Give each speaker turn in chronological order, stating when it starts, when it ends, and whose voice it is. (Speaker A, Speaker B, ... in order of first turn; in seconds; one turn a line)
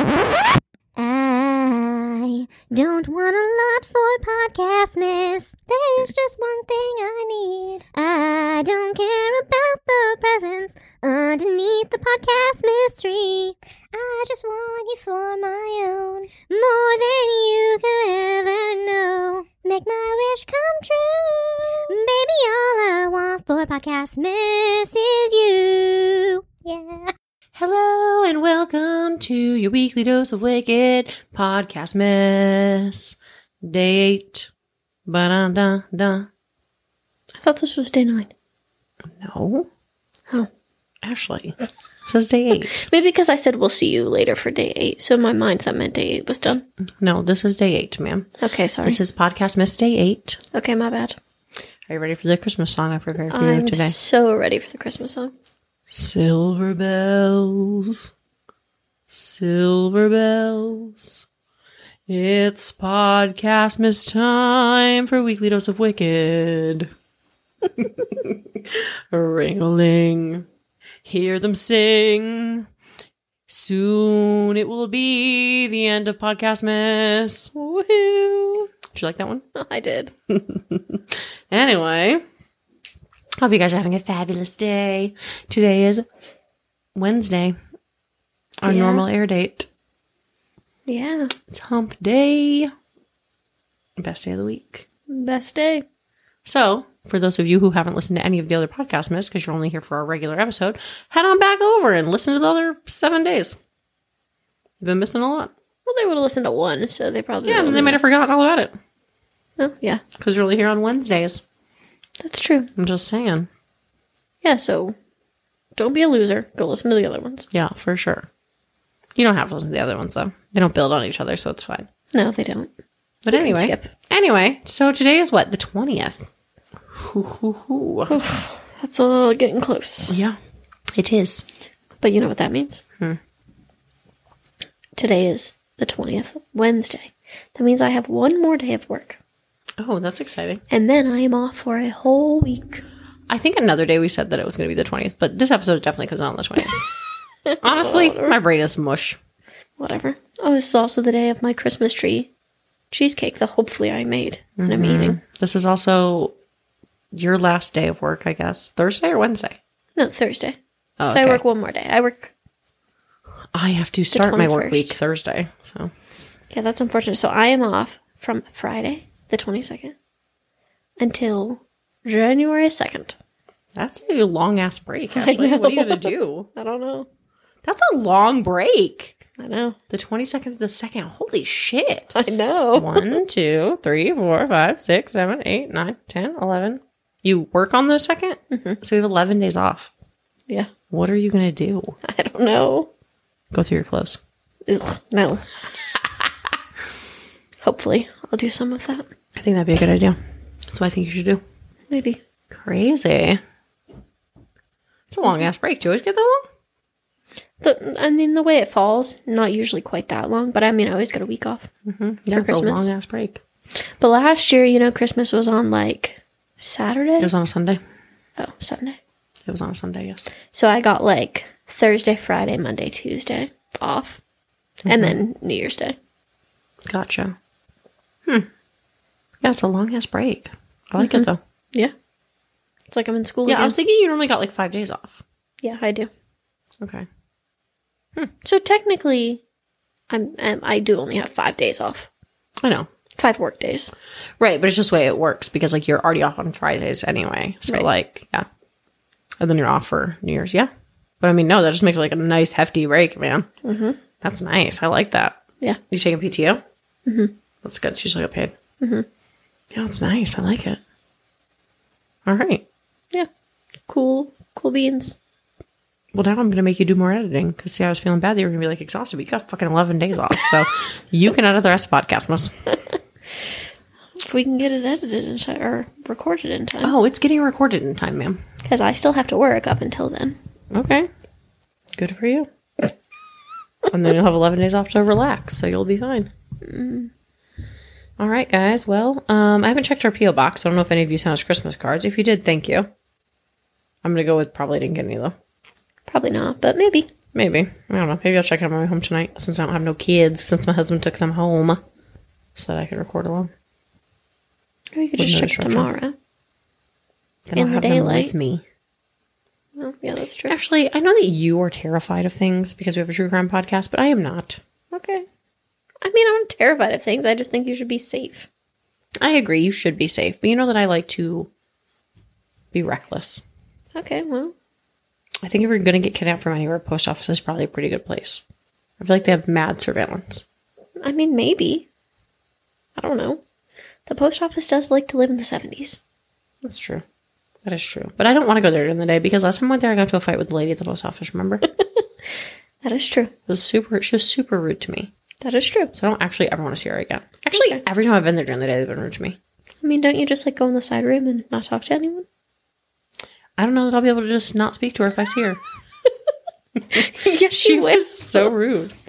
Speaker A: 1.0-27.1
Speaker B: 27.6-34.5
Speaker B: 35.1-36.3
Speaker C: 37.4-38.3
Speaker B: 39.1-39.7
Speaker B: 41.0-41.6
Speaker B: 42.1-42.9
Speaker C: 42.8-46.7
Speaker B: 47.0-48.3
Speaker C: 48.4-49.0
Speaker B: 48.8-50.4
Speaker C: 50.5-51.2
Speaker B: 51.9-54.0
Speaker C: 53.3-55.3
Speaker B: 55.9-58.1
Speaker B: 59.1-61.2
Speaker B: 62.1-66.9
Speaker B: 67.8-70.5
Speaker B: 71.0-72.7
Speaker B: 73.5-77.5
Speaker C: 77.5-78.7
Speaker B: 78.9-79.4
Speaker C: 79.5-80.1
Speaker B: 80.3-82.2
Speaker B: 83.4-86.0
Speaker B: 87.0-87.6
Speaker B: 88.6-89.7
Speaker C: 88.7-89.1
Speaker C: 90.9-91.3
Speaker B: 91.5-92.7
Speaker B: 94.0-94.9
Speaker C: 95.1-95.8
Speaker B: 96.5-103.6
Speaker B: 104.8-105.5
Speaker C: 105.9-108.3
Speaker B: 107.5-108.8
Speaker C: 109.6-110.0
Speaker B: 110.2-111.4
Speaker C: 112.2-112.7
Speaker B: 112.8-113.5
Speaker C: 114.4-115.0
Speaker C: 115.8-117.5
Speaker B: 117.5-118.3
Speaker B: 119.2-121.9
Speaker C: 122.1-122.7
Speaker B: 123.2-126.3
Speaker C: 123.3-123.9
Speaker B: 126.9-128.2
Speaker C: 128.1-130.2
Speaker B: 130.1-130.4
Speaker B: 130.9-131.5
Speaker C: 132.0-132.8
Speaker C: 135.0-139.2
Speaker B: 139.8-140.6
Speaker C: 140.7-142.8
Speaker B: 143.3-146.8
Speaker C: 147.5-148.3
Speaker B: 147.6-149.2
Speaker C: 149.8-152.3
Speaker C: 152.9-155.2
Speaker B: 154.6-156.3
Speaker B: 157.1-159.6
Speaker C: 160.0-162.3
Speaker B: 161.0-161.4
Speaker B: 163.5-165.9
Speaker C: 164.1-165.0
Speaker C: 166.5-169.9
Speaker C: 171.0-173.2
Speaker B: 173.8-176.5
Speaker C: 175.1-177.1
Speaker B: 177.7-179.2
Speaker C: 179.4-179.8
Speaker B: 179.9-182.2
Speaker C: 182.1-183.2
Speaker B: 182.7-189.9
Speaker C: 188.5-188.8
Speaker B: 190.9-191.9
Speaker C: 192.0-192.9
Speaker B: 193.5-194.2
Speaker C: 194.7-195.4
Speaker C: 197.6-199.1
Speaker B: 199.4-200.2
Speaker B: 200.7-201.4
Speaker C: 201.9-202.2
Speaker B: 202.5-203.4
Speaker B: 205.1-206.5
Speaker C: 207.6-211.7
Speaker B: 211.9-213.4
Speaker C: 212.3-212.9
Speaker C: 214.0-217.3
Speaker B: 217.2-217.8
Speaker C: 218.4-219.0
Speaker B: 219.5-220.3
Speaker C: 220.5-224.2
Speaker B: 224.8-225.2
Speaker C: 224.9-226.0
Speaker B: 226.9-227.4
Speaker B: 229.4-231.4
Speaker C: 231.0-231.9
Speaker C: 232.9-233.8
Speaker B: 233.5-235.2
Speaker C: 235.6-236.1
Speaker B: 236.8-237.1
Speaker C: 238.4-239.4
Speaker C: 240.1-242.1
Speaker B: 242.6-242.9
Speaker C: 243.2-243.9
Speaker B: 244.4-248.5
Speaker B: 249.4-250.7
Speaker B: 251.2-253.5
Speaker C: 253.6-254.0
Speaker B: 254.2-256.6
Speaker C: 257.1-257.3
Speaker B: 257.6-258.5
Speaker C: 258.8-259.1
Speaker B: 259.7-260.8
Speaker B: 262.3-262.6
Speaker C: 263.9-265.1
Speaker B: 266.1-272.5
Speaker C: 274.2-276.9
Speaker B: 276.8-278.4
Speaker C: 278.6-280.4
Speaker B: 280.7-281.1
Speaker B: 281.9-282.5
Speaker B: 283.9-286.3
Speaker C: 286.6-287.1
Speaker B: 288.2-292.9
Speaker B: 294.0-295.4
Speaker C: 296.1-297.1
Speaker B: 297.3-301.8
Speaker B: 302.6-303.5
Speaker C: 304.9-306.1
Speaker B: 305.2-305.9
Speaker B: 307.5-308.6
Speaker C: 307.6-308.3
Speaker C: 309.8-310.5
Speaker B: 310.5-314.6
Speaker C: 314.9-315.3
Speaker C: 316.0-318.5
Speaker B: 319.2-321.5
Speaker B: 322.7-323.4
Speaker C: 323.9-324.5
Speaker B: 325.4-328.4
Speaker B: 329.0-330.4
Speaker C: 331.0-331.9
Speaker C: 333.0-333.4
Speaker C: 334.1-336.0
Speaker B: 336.6-337.0
Speaker B: 337.6-341.6
Speaker C: 342.8-343.3
Speaker B: 343.5-345.1
Speaker C: 345.4-345.9
Speaker B: 345.9-349.4
Speaker C: 347.5-347.8
Speaker C: 349.8-352.3
Speaker B: 353.6-355.6
Speaker C: 356.9-358.5
Speaker B: 356.9-358.9